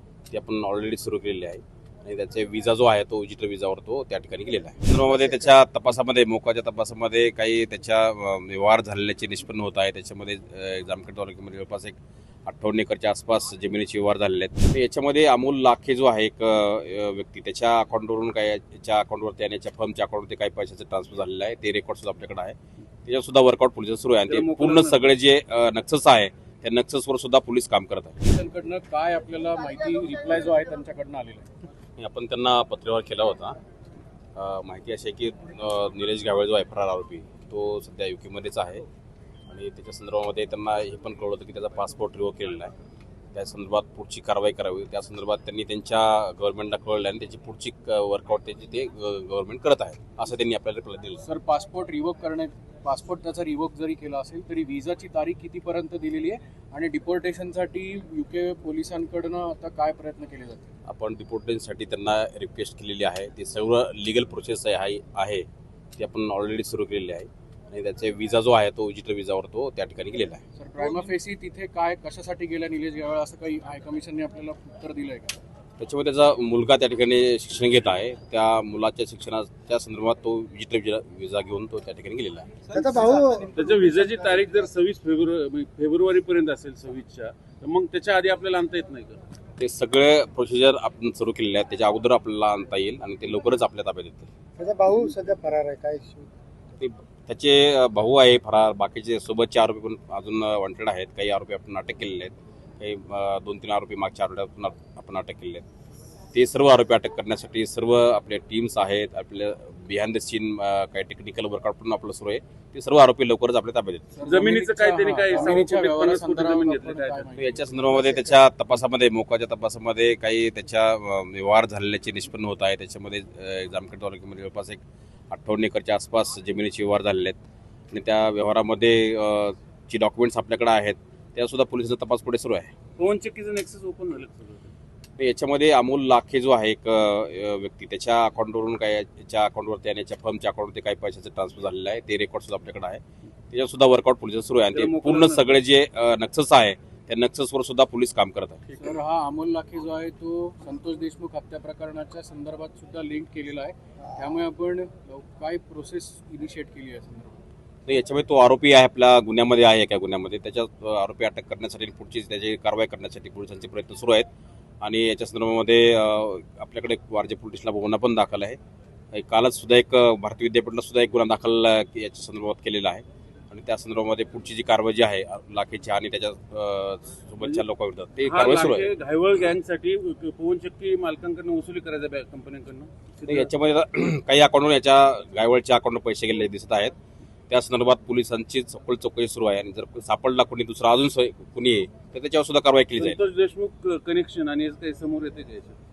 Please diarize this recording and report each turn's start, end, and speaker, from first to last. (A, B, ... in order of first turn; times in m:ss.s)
0:00.3-0:28.2 A
0:24.3-0:25.0 B
0:28.2-0:31.5 C
0:32.0-0:33.6 A
0:34.3-0:38.8 A
0:39.5-0:42.7 A
0:43.3-0:51.2 A
0:51.2-1:00.7 C
1:00.8-1:05.4 A
1:06.0-1:10.4 A
1:10.6-1:15.4 C
1:15.8-1:22.5 A
1:22.7-1:23.9 D
1:23.5-1:29.2 B
1:29.6-1:34.3 A
1:34.6-1:36.3 D
1:36.8-1:45.6 A
1:46.3-1:54.1 A
1:54.1-1:58.4 C
1:54.2-1:57.3 B
1:57.4-2:07.4 A
2:07.9-2:12.7 A
2:13.0-2:14.7 B
2:15.2-2:28.6 A
2:24.7-2:25.6 B
2:28.8-2:37.4 C
2:37.8-2:44.3 A
2:44.8-2:48.6 A
2:49.1-2:58.9 A
2:58.2-3:03.5 B
3:03.2-3:06.9 A
3:07.5-3:13.2 A
3:13.0-3:15.8 B